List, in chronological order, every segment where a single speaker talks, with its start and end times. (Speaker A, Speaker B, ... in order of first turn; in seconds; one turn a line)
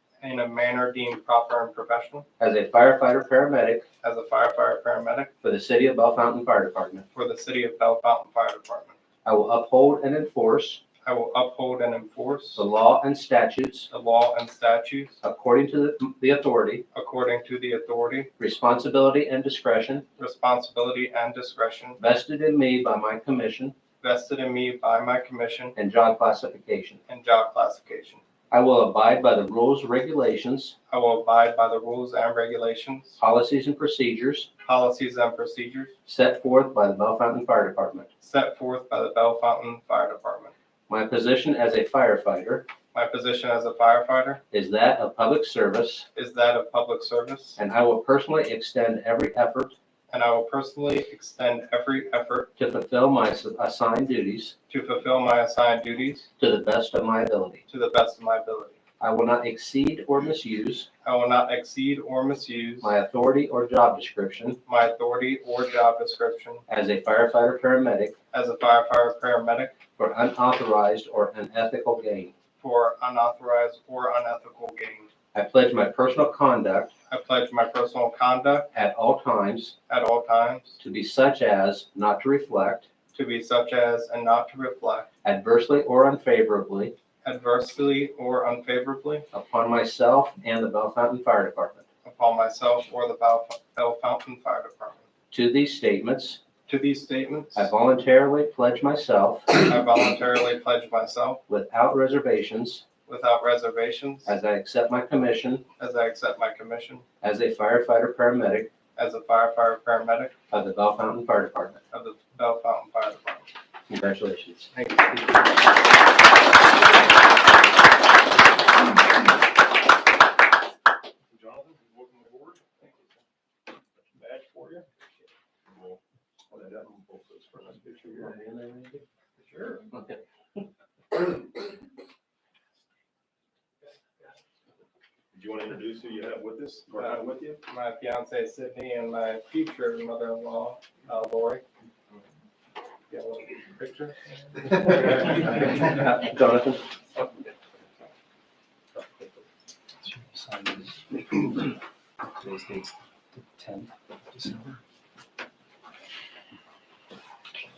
Speaker A: 0.2-2.3
Speaker B: 2.4-3.9
Speaker A: 4.0-5.3
Speaker B: 5.4-7.0
Speaker A: 7.1-9.0
Speaker B: 9.2-10.8
Speaker A: 11.0-12.6
Speaker B: 12.6-13.9
Speaker A: 13.9-15.2
Speaker B: 15.2-16.9
Speaker A: 16.9-18.3
Speaker B: 18.4-20.1
Speaker A: 20.2-22.0
Speaker B: 22.0-23.8
Speaker A: 24.0-25.8
Speaker B: 25.8-27.0
Speaker A: 27.1-28.2
Speaker B: 28.5-30.8
Speaker A: 30.9-33.2
Speaker B: 33.2-34.5
Speaker A: 34.6-35.9
Speaker B: 36.1-38.1
Speaker A: 38.2-40.5
Speaker B: 40.9-42.7
Speaker A: 42.9-44.4
Speaker B: 44.5-46.1
Speaker A: 46.1-47.6
Speaker B: 47.6-49.7
Speaker A: 50.1-52.5
Speaker B: 52.6-54.5
Speaker A: 54.7-56.3
Speaker B: 56.4-57.6
Speaker A: 57.7-58.8
Speaker B: 59.0-60.9
Speaker A: 61.0-62.9
Speaker B: 62.8-64.6
Speaker A: 64.7-66.6
Speaker B: 66.7-68.2
Speaker A: 68.3-69.8
Speaker B: 70.0-72.3
Speaker A: 72.6-75.1
Speaker B: 75.3-76.9
Speaker A: 77.1-78.7
Speaker B: 78.7-79.8
Speaker A: 79.9-80.8
Speaker B: 80.8-82.9
Speaker A: 83.1-85.1
Speaker B: 85.2-86.9
Speaker A: 87.2-89.2
Speaker B: 89.3-91.8
Speaker A: 92.0-95.0
Speaker B: 95.3-96.4
Speaker A: 96.7-97.7
Speaker B: 97.5-99.5
Speaker A: 99.6-101.4
Speaker B: 101.5-102.8
Speaker A: 103.1-104.4
Speaker B: 104.3-105.7
Speaker A: 105.8-107.0
Speaker B: 107.2-108.7
Speaker A: 109.0-110.3
Speaker B: 110.5-111.8
Speaker A: 111.9-113.5
Speaker B: 113.9-114.7
Speaker A: 114.7-115.5
Speaker C: 121.3-122.7
Speaker A: 122.8-123.1
Speaker C: 124.0-124.9
Speaker C: 125.7-128.4
Speaker B: 128.2-129.0
Speaker A: 129.4-129.8
Speaker B: 129.9-130.2
Speaker C: 135.3-137.6
Speaker A: 137.0-141.6
Speaker A: 143.1-145.3
Speaker B: 144.9-146.8
Speaker D: 150.1-151.0
Speaker D: 152.4-152.9
Speaker D: 153.6-154.6